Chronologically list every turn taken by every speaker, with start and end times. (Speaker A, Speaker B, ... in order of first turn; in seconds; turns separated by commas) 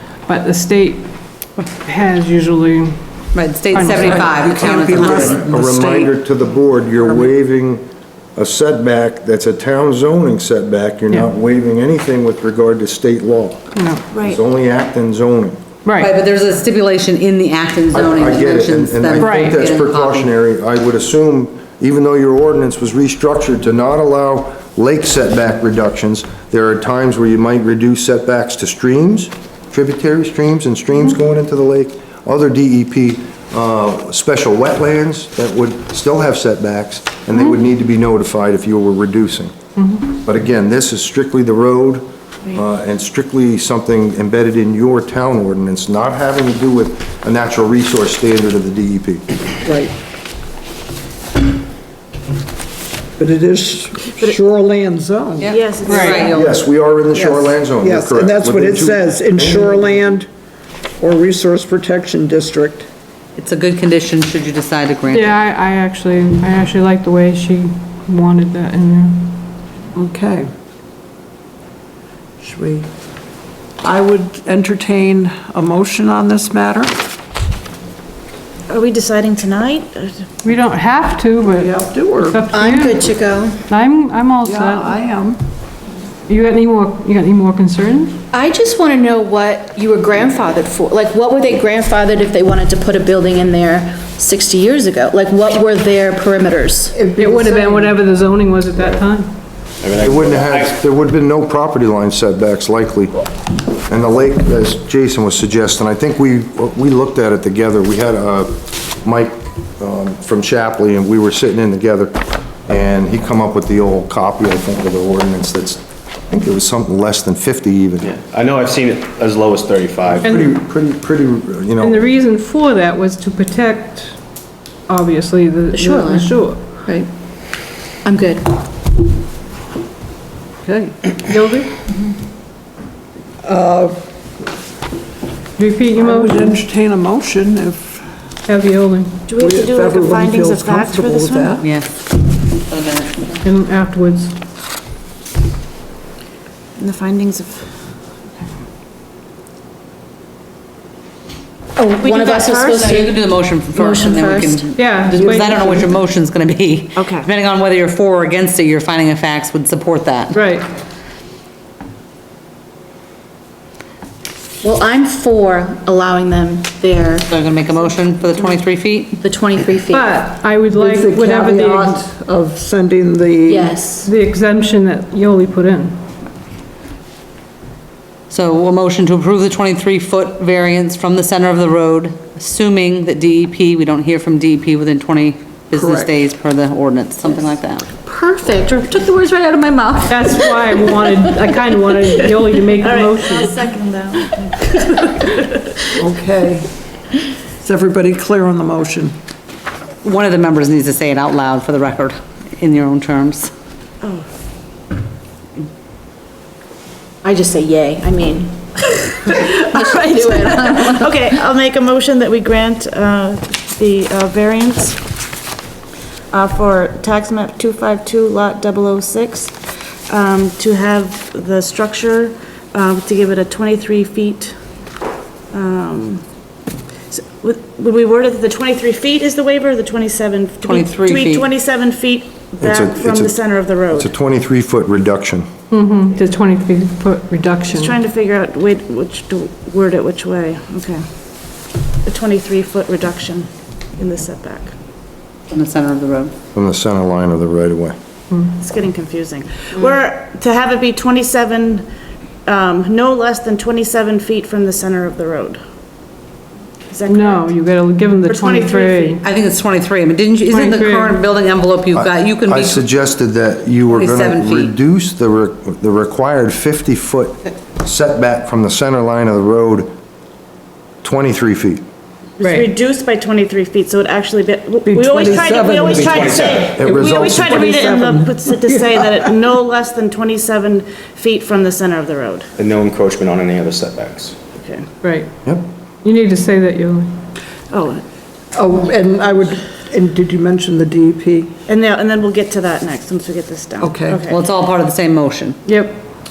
Speaker A: 0.3-3.0, Speaker B: 3.3-5.7, Speaker A: 3.7-4.4, Speaker C: 3.9-6.1, Speaker D: 4.9-7.8, Speaker D: 8.3-13.6, Speaker A: 13.8-14.0, Speaker E: 14.1-14.4, Speaker D: 14.2-15.6, Speaker A: 15.8-16.1, Speaker B: 16.0-20.3, Speaker D: 17.9-39.5, Speaker A: 19.2-19.6, Speaker A: 39.8-40.1, Speaker D: 40.1-49.3, Speaker C: 49.6-49.9, Speaker C: 53.2-56.2, Speaker B: 55.4-56.6, Speaker E: 55.4-56.5, Speaker A: 55.9-56.3, Speaker D: 56.3-59.9, Speaker C: 57.1-60.3, Speaker C: 61.0-62.9, Speaker B: 63.4-65.3, Speaker A: 65.1-69.5, Speaker C: 69.9-70.5, Speaker C: 72.4-72.9, Speaker C: 73.8-76.9, Speaker E: 78.7-80.2, Speaker A: 80.4-83.1, Speaker C: 81.5-82.5, Speaker F: 82.5-83.6, Speaker A: 83.7-85.0, Speaker C: 84.4-85.4, Speaker A: 86.3-88.2, Speaker F: 88.3-97.0, Speaker C: 96.9-98.0, Speaker A: 97.2-99.4, Speaker G: 99.8-100.8, Speaker D: 100.0-103.1, Speaker D: 103.9-118.1, Speaker G: 118.0-120.3, Speaker D: 120.2-122.0, Speaker A: 120.2-120.6, Speaker A: 121.8-124.2, Speaker A: 124.9-126.8, Speaker F: 125.7-127.1, Speaker F: 128.0-128.6, Speaker C: 130.6-131.1, Speaker A: 131.3-131.8, Speaker C: 133.4-134.0, Speaker A: 135.6-136.5, Speaker C: 135.9-138.1, Speaker A: 138.5-139.2, Speaker E: 139.3-141.5, Speaker C: 139.4-141.7, Speaker B: 141.6-141.9, Speaker B: 142.4-143.4, Speaker A: 143.4-144.3, Speaker E: 146.8-147.8, Speaker F: 151.8-154.7, Speaker E: 152.0-152.8, Speaker B: 152.7-160.4, Speaker A: 154.8-155.8, Speaker C: 155.2-155.9, Speaker E: 156.9-157.3, Speaker A: 160.3-160.7, Speaker F: 164.6-167.3, Speaker B: 167.3-169.2, Speaker F: 169.2-170.1, Speaker A: 169.9-172.0, Speaker C: 170.7-173.7, Speaker F: 173.4-174.1, Speaker A: 174.0-176.0, Speaker B: 178.3-187.9, Speaker C: 185.7-186.1, Speaker F: 188.0-190.3, Speaker A: 190.1-193.6, Speaker E: 192.8-195.7, Speaker C: 196.0-196.7, Speaker C: 197.6-199.1, Speaker B: 200.0-203.5, Speaker E: 204.0-204.3, Speaker F: 207.2-211.3, Speaker E: 210.7-215.0, Speaker E: 216.3-219.6, Speaker E: 220.1-224.6, Speaker E: 225.5-226.2, Speaker E: 227.1-234.1, Speaker B: 230.6-231.5, Speaker D: 232.6-235.4, Speaker A: 235.7-238.0, Speaker E: 237.7-241.0, Speaker E: 242.0-244.7, Speaker B: 245.5-246.3, Speaker D: 246.5-247.9, Speaker E: 248.6-251.8, Speaker E: 252.4-255.6, Speaker E: 256.9-257.5, Speaker A: 257.1-259.2, Speaker E: 258.2-259.2, Speaker B: 259.2-262.8, Speaker A: 260.5-261.2, Speaker D: 261.9-269.9, Speaker B: 263.9-264.7, Speaker D: 271.0-271.8, Speaker E: 272.4-282.5, Speaker A: 272.4-272.7, Speaker C: 274.8-279.3, Speaker G: 275.9-276.8, Speaker D: 276.7-277.6, Speaker G: 282.6-284.4, Speaker E: 284.6-284.8, Speaker A: 285.0-285.3, Speaker A: 286.0-287.2, Speaker E: 287.7-288.0, Speaker C: 288.5-291.5, Speaker E: 291.7-294.4, Speaker C: 293.8-294.2, Speaker B: 294.3-295.6, Speaker A: 295.6-296.1